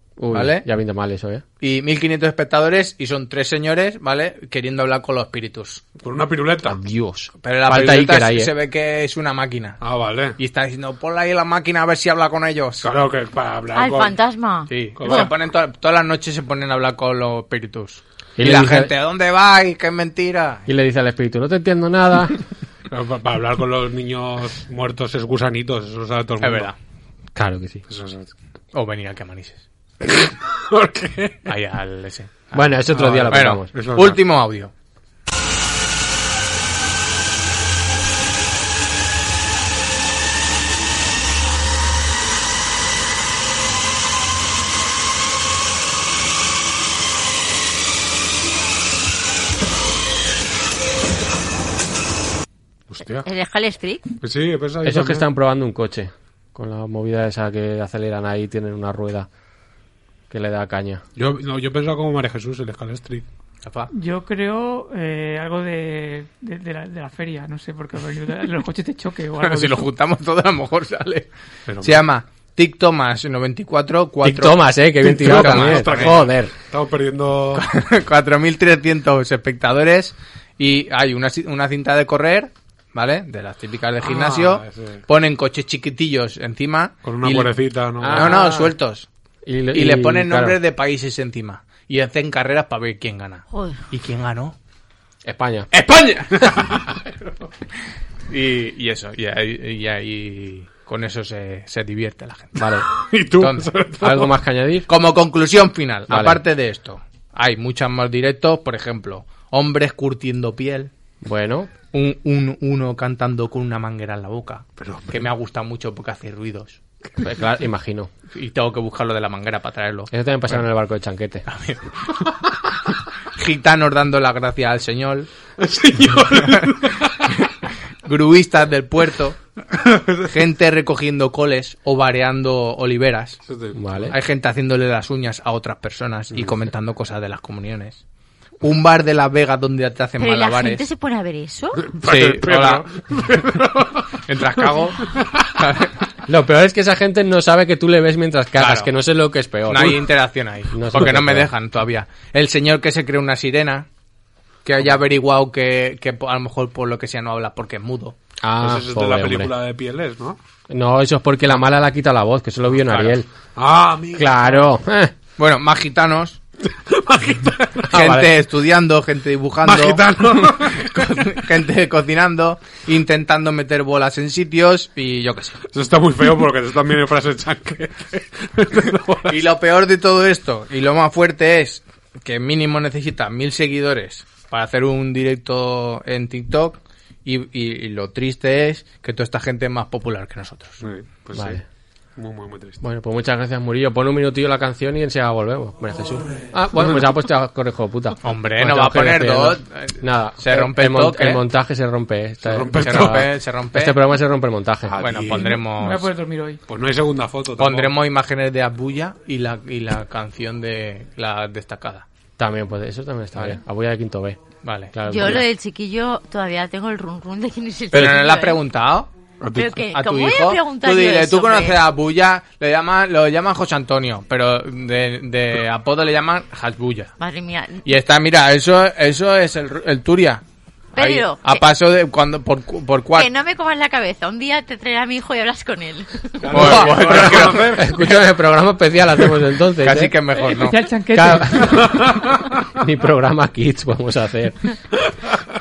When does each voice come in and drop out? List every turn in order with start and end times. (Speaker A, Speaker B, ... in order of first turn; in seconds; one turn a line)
Speaker A: 0.2-1.4
Speaker B: 0.3-0.7
Speaker B: 1.6-5.8
Speaker C: 6.0-6.8
Speaker A: 6.6-8.5
Speaker B: 7.4-9.8
Speaker C: 9.8-10.3
Speaker B: 10.4-12.9
Speaker C: 12.8-14.2
Speaker D: 13.7-15.3
Speaker B: 14.7-20.7
Speaker C: 15.0-15.3
Speaker A: 18.4-18.9
Speaker A: 20.7-22.4
Speaker C: 22.9-26.7
Speaker B: 26.4-26.8
Speaker A: 27.3-27.8
Speaker C: 27.9-28.3
Speaker B: 28.7-29.6
Speaker C: 30.0-31.5
Speaker B: 31.4-34.7
Speaker A: 32.5-33.7
Speaker C: 32.9-34.2
Speaker C: 52.9-53.3
Speaker D: 53.2-54.0
Speaker C: 54.2-55.3
Speaker A: 54.8-59.3
Speaker A: 60.3-61.0
Speaker C: 61.1-63.2
Speaker B: 63.6-63.9
Speaker E: 63.9-69.8
Speaker B: 69.4-71.3
Speaker C: 71.7-72.0
Speaker B: 71.8-76.2
Speaker A: 74.2-76.5
Speaker C: 75.0-77.6
Speaker B: 77.5-89.1
Speaker C: 84.0-85.0
Speaker C: 87.0-88.5
Speaker A: 88.0-88.7
Speaker A: 89.4-90.6
Speaker B: 89.7-94.5
Speaker D: 93.5-93.8
Speaker A: 95.2-95.7
Speaker B: 95.7-96.5
Speaker C: 96.4-97.1
Speaker B: 98.3-102.7
Speaker A: 102.5-102.8
Speaker C: 103.0-104.3
Speaker B: 103.4-103.7
Speaker A: 104.0-104.9
Speaker B: 104.9-110.9
Speaker A: 106.1-106.4
Speaker A: 111.2-111.7
Speaker B: 111.9-116.8
Speaker C: 114.8-115.3
Speaker A: 117.2-118.1
Speaker B: 118.3-120.6
Speaker A: 120.1-121.4
Speaker B: 121.5-121.8
Speaker B: 123.3-125.3
Speaker C: 125.6-127.3
Speaker B: 128.0-129.4
Speaker C: 129.8-130.2
Speaker B: 130.2-133.4
Speaker C: 133.5-134.1
Speaker A: 133.7-134.2
Speaker B: 134.1-138.0
Speaker B: 138.6-140.8
Speaker D: 140.2-141.9
Speaker C: 141.8-144.2
Speaker B: 142.0-142.8
Speaker B: 144.2-145.0
Speaker C: 145.2-145.4
Speaker B: 145.6-145.9
Speaker A: 146.2-150.1
Speaker B: 148.6-148.9
Speaker B: 149.7-153.9
Speaker A: 150.7-151.5
Speaker B: 154.6-158.1
Speaker A: 158.4-159.5
Speaker C: 158.6-160.4
Speaker A: 160.7-163.3
Speaker C: 162.8-164.6
Speaker A: 164.2-165.1
Speaker B: 165.4-166.4
Speaker C: 166.7-168.2
Speaker A: 167.9-168.3
Speaker B: 167.9-175.6
Speaker C: 169.6-171.4
Speaker C: 175.7-179.4
Speaker B: 179.3-190.8
Speaker C: 190.8-191.6
Speaker A: 191.3-191.6
Speaker C: 192.2-192.8
Speaker A: 192.8-205.2
Speaker B: 198.2-201.4
Speaker C: 202.4-203.3
Speaker B: 202.8-204.0
Speaker C: 204.9-205.6
Speaker B: 205.0-206.1
Speaker E: 205.5-206.6
Speaker C: 206.7-207.9
Speaker B: 207.6-212.0
Speaker A: 212.4-214.4
Speaker B: 214.6-215.4
Speaker A: 214.9-215.4
Speaker D: 215.1-218.6
Speaker B: 217.9-219.1
Speaker C: 219.4-219.7
Speaker D: 219.5-221.8
Speaker B: 219.8-227.1
Speaker D: 227.2-227.8
Speaker B: 227.8-230.4
Speaker D: 230.9-231.7
Speaker B: 230.9-233.3
Speaker D: 233.1-236.3
Speaker C: 236.4-237.8
Speaker B: 236.5-238.2
Speaker A: 236.5-240.2
Speaker B: 239.8-240.8
Speaker E: 240.4-241.8
Speaker A: 241.1-244.6
Speaker C: 241.6-242.5
Speaker C: 245.1-245.4